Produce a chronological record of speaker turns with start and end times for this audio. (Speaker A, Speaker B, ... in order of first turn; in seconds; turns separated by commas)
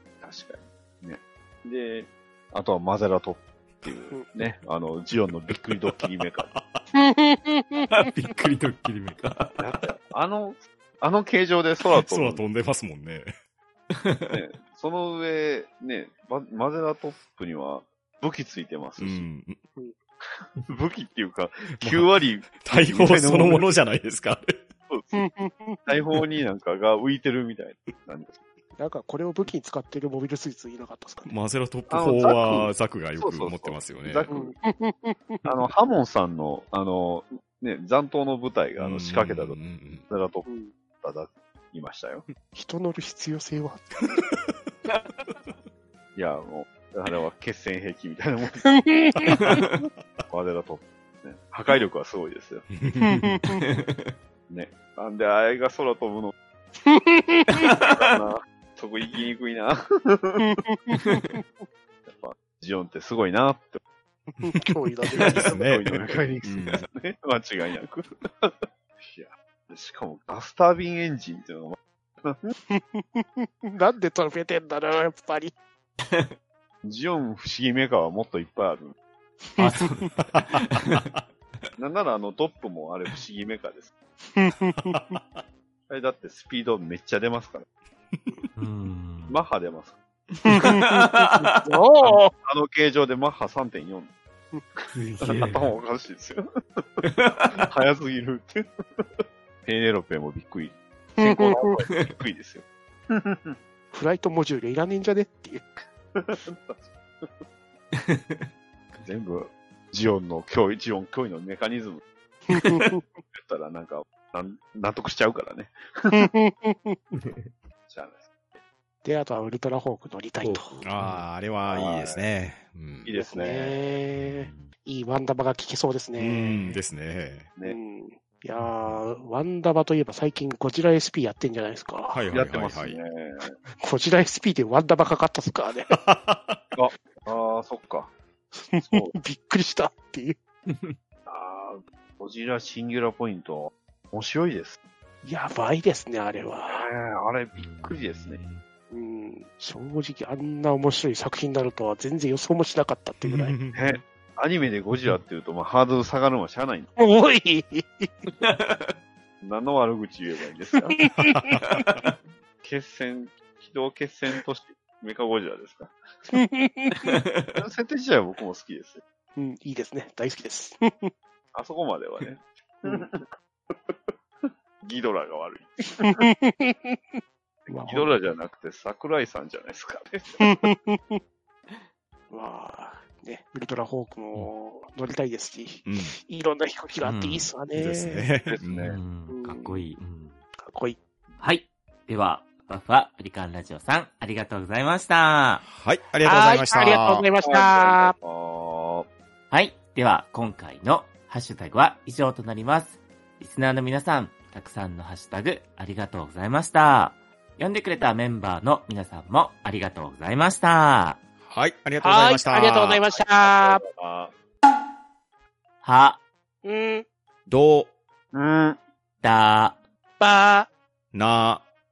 Speaker A: 0.2-6.5, Speaker B: 6.5-6.8, Speaker C: 7.0-8.1, Speaker D: 7.9-9.6, Speaker A: 9.6-12.4, Speaker B: 12.0-13.3, Speaker D: 13.9-14.4, Speaker A: 14.3-19.3, Speaker B: 19.0-19.6, Speaker A: 20.2-23.7, Speaker B: 21.8-24.6, Speaker A: 24.9-25.2, Speaker C: 25.1-25.9, Speaker A: 25.9-28.4, Speaker C: 28.8-31.3, Speaker B: 31.2-34.3, Speaker A: 31.9-34.5, Speaker C: 34.3-35.5, Speaker A: 35.5-39.6, Speaker B: 38.8-40.0, Speaker A: 40.1-40.5, Speaker C: 40.5-40.7, Speaker A: 41.0-42.3, Speaker C: 42.5-44.3, Speaker A: 46.1-48.8, Speaker C: 48.6-49.6, Speaker D: 49.4-49.8, Speaker A: 50.3-52.7, Speaker B: 52.7-53.6, Speaker C: 53.0-53.6, Speaker D: 53.5-54.1, Speaker A: 54.5-56.4, Speaker C: 56.8-57.8, Speaker A: 57.8-60.5, Speaker C: 60.4-61.5, Speaker A: 62.1-63.8, Speaker B: 64.3-66.9, Speaker C: 64.4-65.4, Speaker A: 65.2-72.5, Speaker C: 72.7-75.5, Speaker D: 76.0-76.3, Speaker A: 76.8-79.0, Speaker C: 79.6-80.1, Speaker D: 79.6-81.1, Speaker B: 80.2-80.8, Speaker A: 81.8-83.9, Speaker C: 84.2-85.2, Speaker B: 84.9-85.4, Speaker A: 85.9-87.7, Speaker D: 88.6-89.4, Speaker A: 89.3-90.0, Speaker D: 90.3-91.6, Speaker C: 90.5-92.3, Speaker A: 92.0-94.1, Speaker A: 94.8-103.6, Speaker D: 94.9-95.8, Speaker D: 97.0-97.7, Speaker C: 101.2-101.8, Speaker C: 103.9-105.6, Speaker A: 106.1-107.4, Speaker D: 107.9-109.1, Speaker A: 109.0-112.0, Speaker C: 112.5-113.0, Speaker D: 112.5-112.9, Speaker A: 113.3-116.3, Speaker C: 116.1-117.0, Speaker D: 117.1-117.5, Speaker A: 117.9-118.3, Speaker C: 119.0-120.8, Speaker D: 120.4-121.2, Speaker B: 120.8-123.1, Speaker A: 121.7-122.2, Speaker A: 123.0-123.9, Speaker C: 123.2-126.8, Speaker D: 124.2-124.7, Speaker B: 126.2-127.5, Speaker C: 127.7-132.2, Speaker D: 128.6-129.1, Speaker B: 132.1-133.0, Speaker A: 132.3-133.5, Speaker C: 133.8-136.0, Speaker B: 135.9-136.6, Speaker A: 136.7-138.1, Speaker C: 138.5-140.4, Speaker A: 138.8-139.2, Speaker D: 140.7-141.0, Speaker A: 141.3-144.8, Speaker C: 145.2-146.9, Speaker A: 146.7-148.4, Speaker D: 147.6-148.6, Speaker C: 148.9-153.6, Speaker B: 153.2-154.0, Speaker A: 153.7-156.9, Speaker D: 154.9-155.2, Speaker C: 157.0-158.3, Speaker D: 158.4-158.9, Speaker A: 159.4-161.0, Speaker C: 160.8-161.9, Speaker B: 161.3-161.6, Speaker A: 162.6-166.0, Speaker C: 166.3-167.2, Speaker D: 167.0-167.6, Speaker A: 167.6-169.0, Speaker C: 169.4-171.1, Speaker A: 171.5-176.1, Speaker C: 176.0-178.2, Speaker A: 177.8-180.7, Speaker C: 180.4-181.2, Speaker C: 182.3-188.3, Speaker B: 185.9-186.2, Speaker D: 187.0-187.5, Speaker B: 187.7-188.9, Speaker A: 188.5-189.0, Speaker D: 188.8-190.4, Speaker C: 189.3-189.8, Speaker C: 190.6-191.0, Speaker D: 191.4-195.7, Speaker B: 195.7-197.3, Speaker C: 196.2-198.1, Speaker A: 197.4-199.1, Speaker D: 199.5-211.2, Speaker B: 211.4-213.0, Speaker C: 212.0-213.8, Speaker A: 213.1-214.3, Speaker D: 215.8-216.2, Speaker C: 216.7-217.0, Speaker B: 217.5-217.9, Speaker A: 218.3-218.8, Speaker D: 219.2-219.8, Speaker C: 220.2-220.7, Speaker B: 221.1-221.6